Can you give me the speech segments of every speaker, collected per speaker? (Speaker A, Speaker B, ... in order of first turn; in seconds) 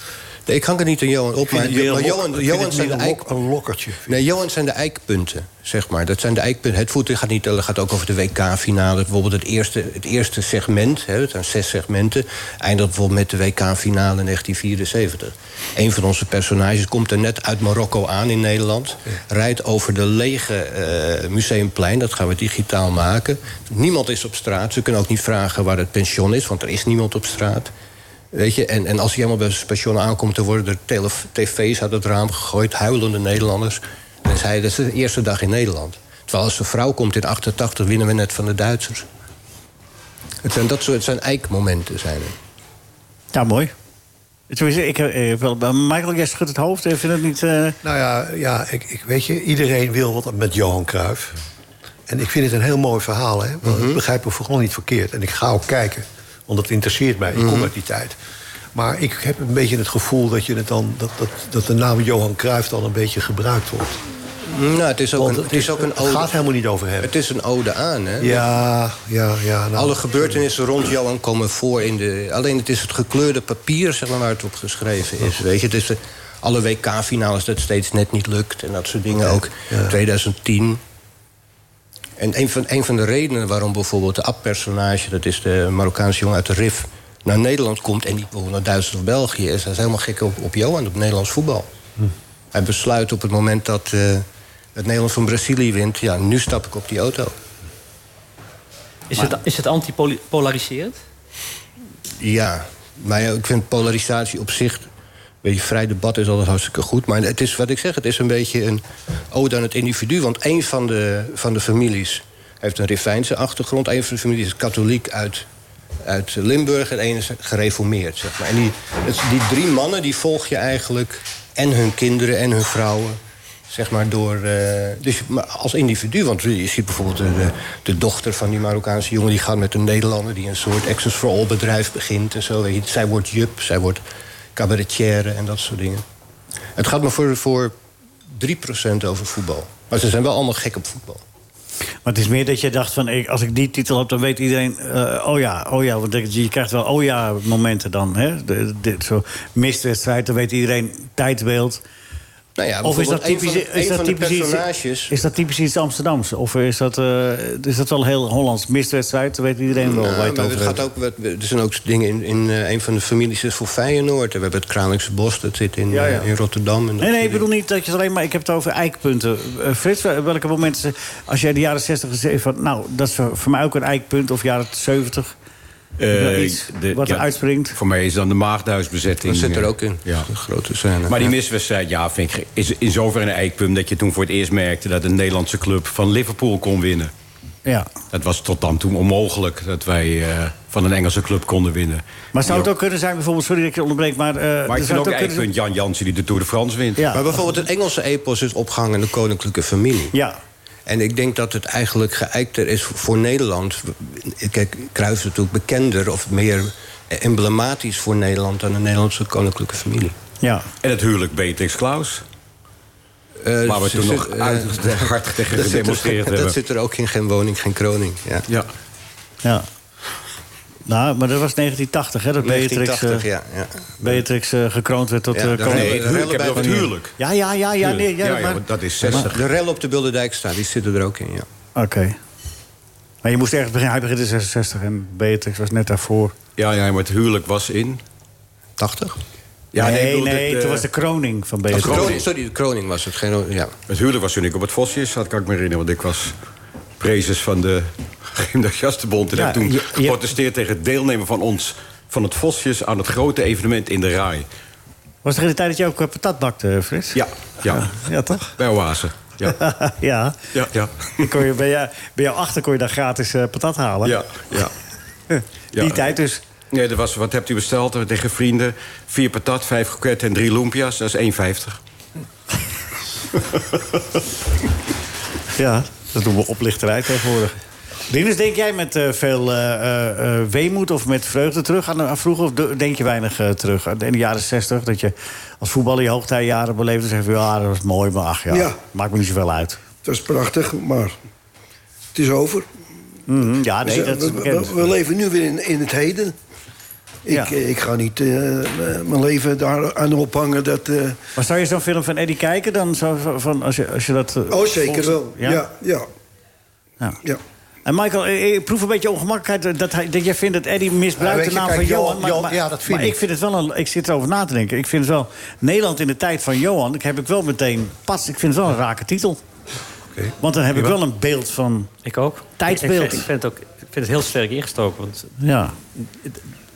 Speaker A: 0.5-3.2, 4.1-27.7, 28.3-39.0, 40.4-42.3, 53.6-54.0, 57.3-57.7, 64.5-66.3, 67.0-68.4, 69.8-80.8, 82.2-91.7, 92.5-97.3, 102.2-104.8, 105.4-115.5, 116.0-134.0, 134.6-136.0, 136.8-137.7, 138.3-141.2, 152.6-155.1, 159.8-167.4, 179.2-181.3, 197.1-200.1, 200.9-210.2, 213.4-218.5, 222.4-224.2, 225.3-226.9, 229.0-231.5, 238.8-239.2, 241.7-243.7
Speaker B: 1.4-4.2, 47.8-51.4, 52.1-58.2, 58.7-64.0, 65.2-67.1, 68.2-70.4, 79.3-79.9, 311.2-313.2, 320.1-321.0
Speaker C: 43.3-43.7, 44.5-47.8, 142.0-151.8, 152.8-160.8, 165.9-166.3, 167.0-175.3, 176.1-177.8, 187.6-187.9, 192.3-195.5, 200.1-200.4, 210.4-210.7, 220.9-223.2, 224.0-226.0, 227.2-229.3, 231.8-232.2, 233.2-236.3, 239.8-242.2, 249.3-250.2, 255.2-258.5, 259.4-260.5, 261.2-264.2, 265.3-266.4, 275.6-277.5, 278.1-289.8, 293.3-294.8, 301.4-305.6, 307.8-319.4, 320.4-321.9, 322.6-323.2, 325.4-325.7
Speaker D: 99.1-101.0, 322.0-325.3, 326.0-326.4
Speaker E: 176.0-180.3, 181.1-187.1, 188.1-192.7, 194.7-197.1, 210.8-212.2, 213.6-216.6, 225.6-227.1, 227.8-229.4, 236.6-238.0, 239.7-240.8, 241.7-242.2, 243.9-246.3, 247.0-254.5, 257.1-259.6, 260.5-261.3, 264.0-264.7, 265.7-266.1, 266.7-271.8, 273.4-273.8
Speaker F: 288.5-288.8, 290.0-291.1, 292.1-292.7, 293.8-296.3, 297.2-301.2, 304.5-306.1